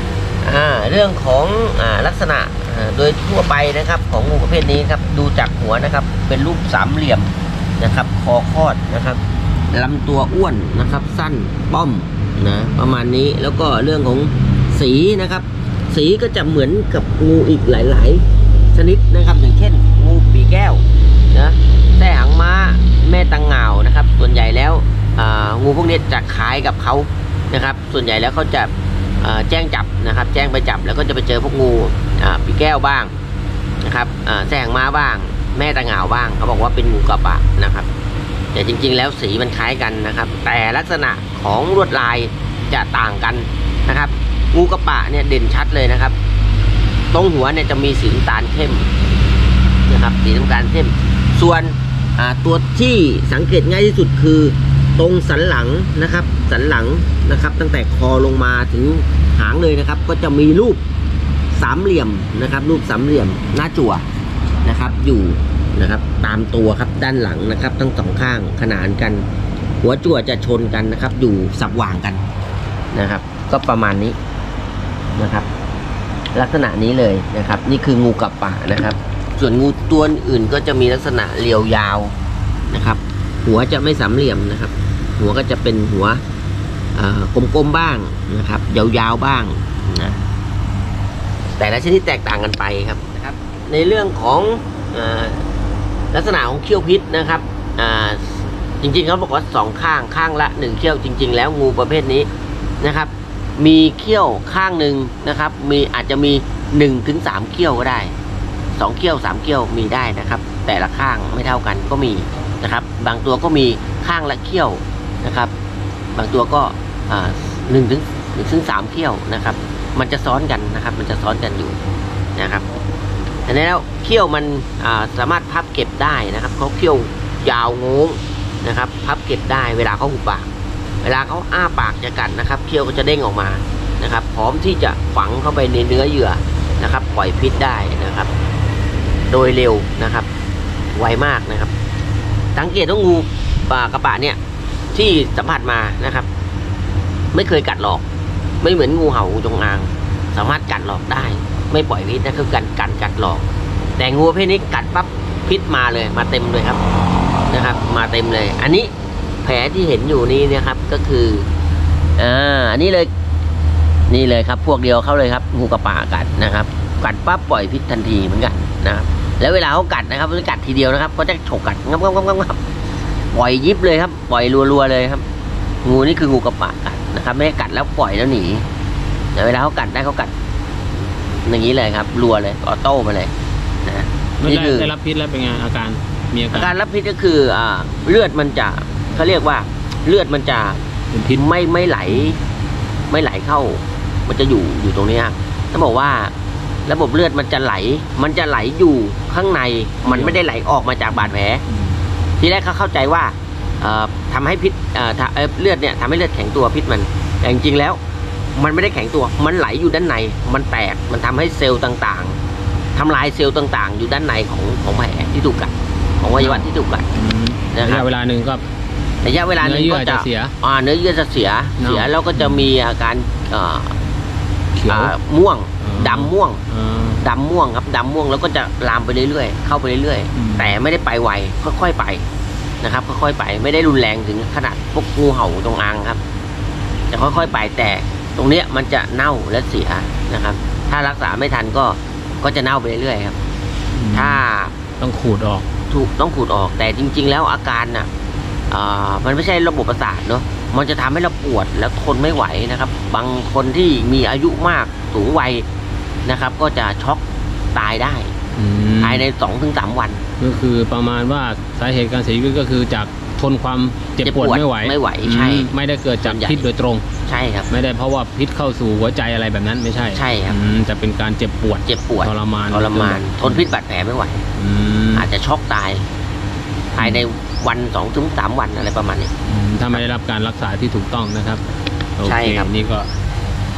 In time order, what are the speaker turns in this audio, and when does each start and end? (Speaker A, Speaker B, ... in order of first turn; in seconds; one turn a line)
Speaker A: 0.4-33.1
Speaker A: 33.8-37.9
Speaker A: 38.5-46.2
Speaker A: 47.1-48.9
Speaker A: 49.9-60.8
Speaker A: 61.5-64.0
Speaker A: 64.6-69.3
Speaker A: 69.8-72.2
Speaker A: 72.9-74.2
Speaker A: 75.1-75.5
Speaker A: 76.3-82.2
Speaker A: 82.7-86.2
Speaker A: 87.0-90.2
Speaker A: 91.6-95.5
Speaker A: 96.1-102.3
Speaker A: 102.8-108.1
Speaker A: 108.8-115.5
Speaker A: 116.1-121.8
Speaker A: 122.4-122.7
Speaker A: 123.5-130.5
Speaker A: 131.0-138.3
Speaker A: 139.3-140.3
Speaker A: 140.9-141.7
Speaker A: 142.6-144.4
Speaker A: 144.9-146.3
Speaker A: 147.3-148.0
Speaker A: 148.6-153.4
Speaker A: 154.0-156.8
Speaker A: 157.5-158.9
Speaker A: 159.4-161.5
Speaker A: 162.2-163.1
Speaker A: 164.1-172.6
Speaker A: 173.3-175.2
Speaker A: 175.8-178.7
Speaker A: 179.3-180.3
Speaker A: 181.5-183.3
Speaker A: 183.8-184.9
Speaker B: 184.4-186.8
Speaker A: 186.5-190.8
Speaker B: 191.1-191.4
Speaker A: 191.3-192.4
Speaker B: 192.1-192.3
Speaker A: 193.1-196.3
Speaker A: 196.9-201.6
Speaker B: 200.1-200.4
Speaker B: 201.2-202.0
Speaker A: 202.4-208.0
Speaker A: 208.6-212.4
Speaker A: 212.9-217.1
Speaker B: 216.4-218.6
Speaker A: 217.7-218.1
Speaker A: 219.2-223.9
Speaker B: 219.6-220.5
Speaker B: 221.8-222.7
Speaker B: 224.8-225.1
Speaker A: 224.9-226.6
Speaker B: 225.8-227.2
Speaker A: 227.2-232.3
Speaker B: 230.3-230.8
Speaker A: 232.8-236.2
Speaker A: 237.1-243.4
Speaker B: 243.9-244.4
Speaker A: 244.1-244.7
Speaker B: 245.0-245.7
Speaker A: 245.9-248.1
Speaker A: 248.7-255.7
Speaker A: 256.3-257.2
Speaker A: 257.8-258.3
Speaker B: 258.6-259.2
Speaker A: 259.0-260.2
Speaker B: 260.4-267.0
Speaker A: 264.2-266.7
Speaker A: 267.3-267.7
Speaker B: 267.7-273.7
Speaker A: 270.1-270.6
Speaker A: 271.9-274.4
Speaker B: 274.6-275.3
Speaker A: 275.1-276.1
Speaker A: 276.9-279.3
Speaker B: 277.0-277.2
Speaker B: 279.5-281.6
Speaker B: 282.2-283.1
Speaker A: 282.2-282.7